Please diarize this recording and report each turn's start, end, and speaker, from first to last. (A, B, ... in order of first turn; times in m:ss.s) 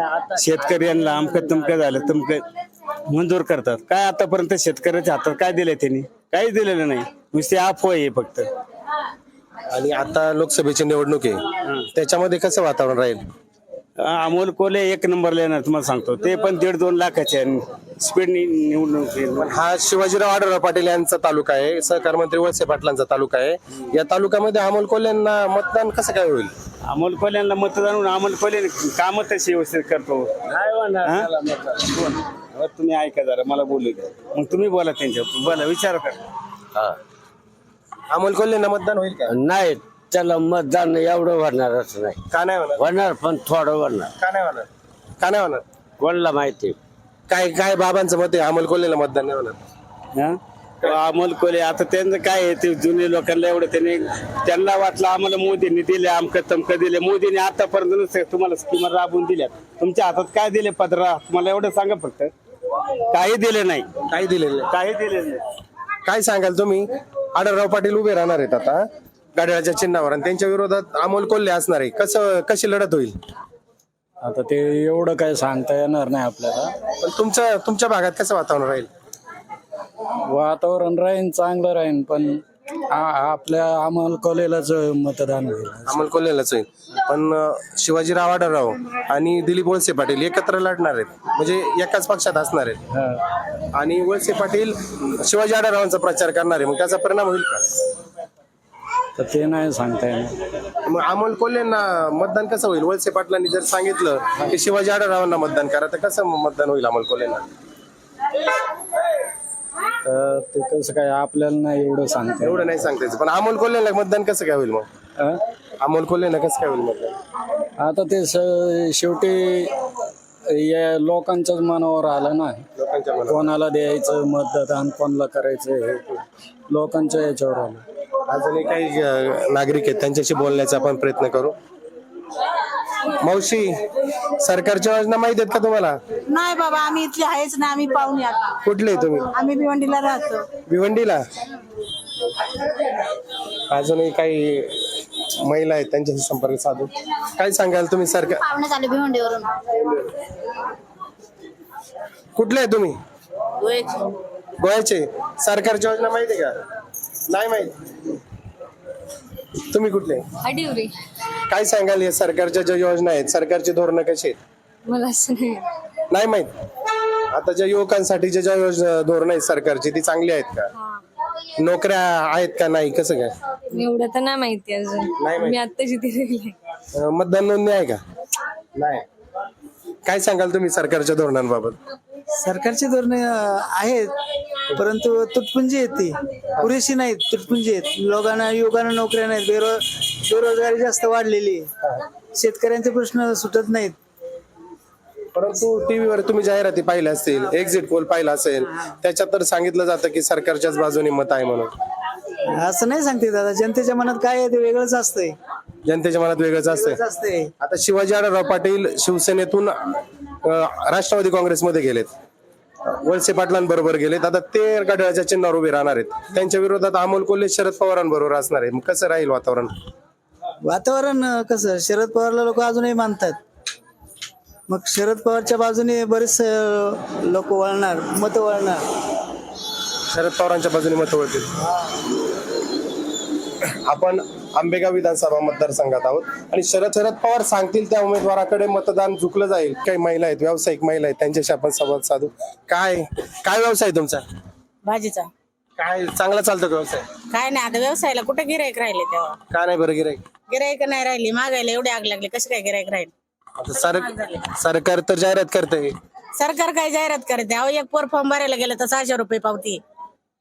0:00.4-0:02.4 A
0:03.1-0:08.5 A
0:09.7-0:11.4 B
0:11.9-0:13.2 B
0:14.0-0:19.5 A
0:19.4-0:26.5 B
0:26.9-0:30.3 A
0:31.0-0:31.3 A
0:32.5-0:36.2 A
0:38.1-0:39.4 B
0:39.4-0:42.1 C
0:42.3-0:43.0 B
0:42.8-0:44.0 C
0:44.2-0:44.7 B
0:45.2-0:45.6 B
0:46.0-0:46.7 C
0:47.3-0:49.6 B
0:50.2-1:02.3 A
1:03.1-1:03.9 A
1:04.1-1:04.7 B
1:04.7-1:05.4 A
1:06.0-1:08.8 B
1:09.4-1:13.1 B
1:14.2-1:16.7 D
1:17.0-1:18.9 B
1:20.3-1:26.0 D
1:25.8-1:32.8 B
1:32.9-1:33.2 D
1:33.7-1:37.6 B
1:39.2-1:40.4 D
1:40.8-1:47.4 B
1:50.0-1:52.7 D
1:52.4-1:54.9 B
1:55.8-1:57.1 B
1:57.8-1:59.7 D
2:00.6-2:02.6 D
2:02.8-2:03.5 B
2:03.3-2:06.2 D
2:06.7-2:07.8 D
2:08.3-2:11.5 B
2:13.2-2:13.7 B
2:14.4-2:16.0 B
2:18.6-2:19.3 B
2:20.6-2:21.2 B
2:23.7-2:28.4 B
2:32.4-2:33.0 B
2:34.6-2:36.5 B
2:37.3-2:37.7 B
2:39.7-2:40.2 B
2:40.6-2:40.9 E
2:41.5-2:44.4 B
2:44.9-2:45.6 E
2:46.1-2:46.5 B
2:47.3-2:50.7 B
2:51.6-2:53.3 B
2:53.7-2:56.5 E
2:55.2-2:55.6 B
2:56.9-2:58.0 B
2:58.7-2:59.0 B
3:00.0-3:01.8 B
3:02.4-3:04.1 F
3:04.7-3:11.7 F
3:12.3-3:14.0 F
3:15.3-3:21.7 B
3:22.5-3:25.4 F
3:25.8-3:27.0 B
3:26.9-3:27.5 F
3:27.6-3:29.7 B
3:30.4-3:32.1 B
3:32.9-3:39.7 B
3:40.6-3:43.4 F
3:44.7-3:48.8 F
3:50.1-3:51.5 B
3:53.8-4:04.2 B
4:04.8-4:05.3 G
4:05.8-4:07.0 B
4:07.3-4:09.4 G
4:09.5-4:10.2 B
4:10.5-4:13.1 G
4:13.6-4:15.9 B
4:13.8-4:14.4 G
4:16.4-4:19.8 G